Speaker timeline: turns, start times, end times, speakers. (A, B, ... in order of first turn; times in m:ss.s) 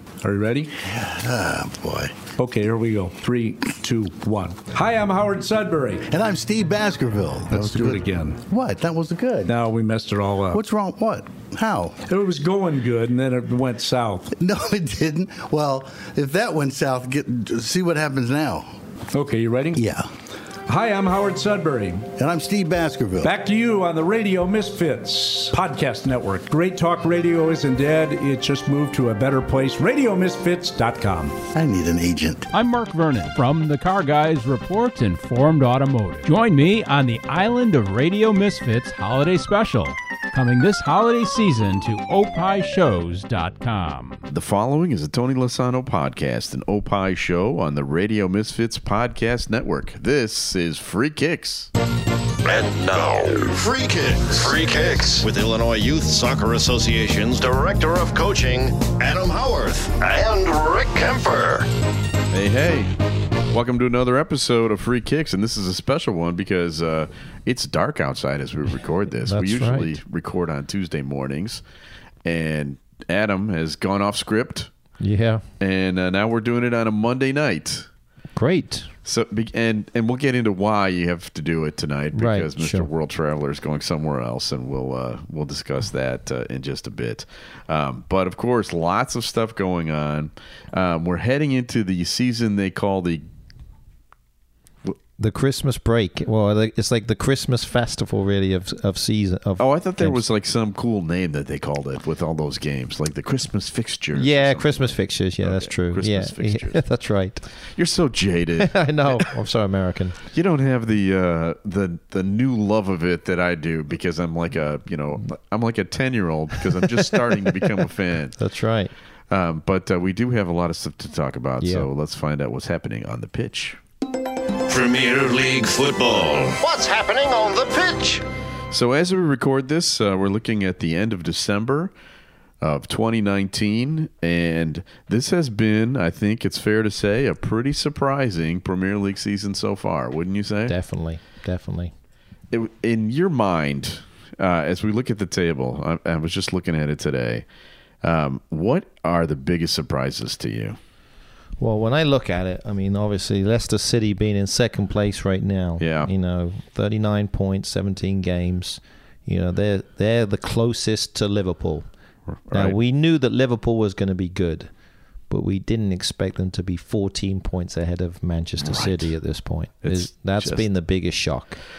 0:00.2-0:00.7 A
0:00.8-0:02.3 B
0:02.4-0:06.1 A
0:06.1-0:09.5 B
0:07.5-0:08.4 A
0:09.5-0:10.6 A
0:10.5-0:12.0 B
0:12.1-0:14.3 A
0:14.4-0:18.8 B
0:19.1-0:19.8 A
0:19.7-0:20.1 B
0:20.7-0:22.1 A
0:22.2-0:23.3 B
0:23.2-0:31.4 A
0:31.5-0:32.5 B
0:32.5-0:44.2 C
0:44.3-0:51.7 D
0:52.4-1:01.7 E
1:02.3-1:02.9 D
1:03.5-1:11.6 D
1:09.3-1:10.0 F
1:12.2-1:14.7 D
1:15.0-1:15.4 F
1:15.6-1:17.9 D
1:18.4-1:18.9 F
1:19.0-1:33.3 D
1:22.1-1:22.9 F
1:35.2-1:40.2 F
1:39.6-1:46.8 D
1:44.2-1:47.5 F
1:47.8-1:49.3 D
1:48.6-1:50.2 F
1:50.3-1:58.4 D
1:56.6-1:57.7 F
1:58.4-1:58.9 F
1:59.3-2:03.8 D
2:01.6-2:01.9 F
2:04.7-2:08.2 E
2:08.7-2:11.9 D
2:12.6-2:20.8 D
2:20.7-2:21.9 F
2:22.5-2:27.4 D
2:28.0-2:30.8 D
2:31.6-2:41.9 F
2:35.8-2:36.1 D
2:42.3-2:42.8 D
2:42.5-2:44.7 F
2:45.3-2:51.6 F
2:48.6-2:49.1 D
2:49.8-2:50.6 D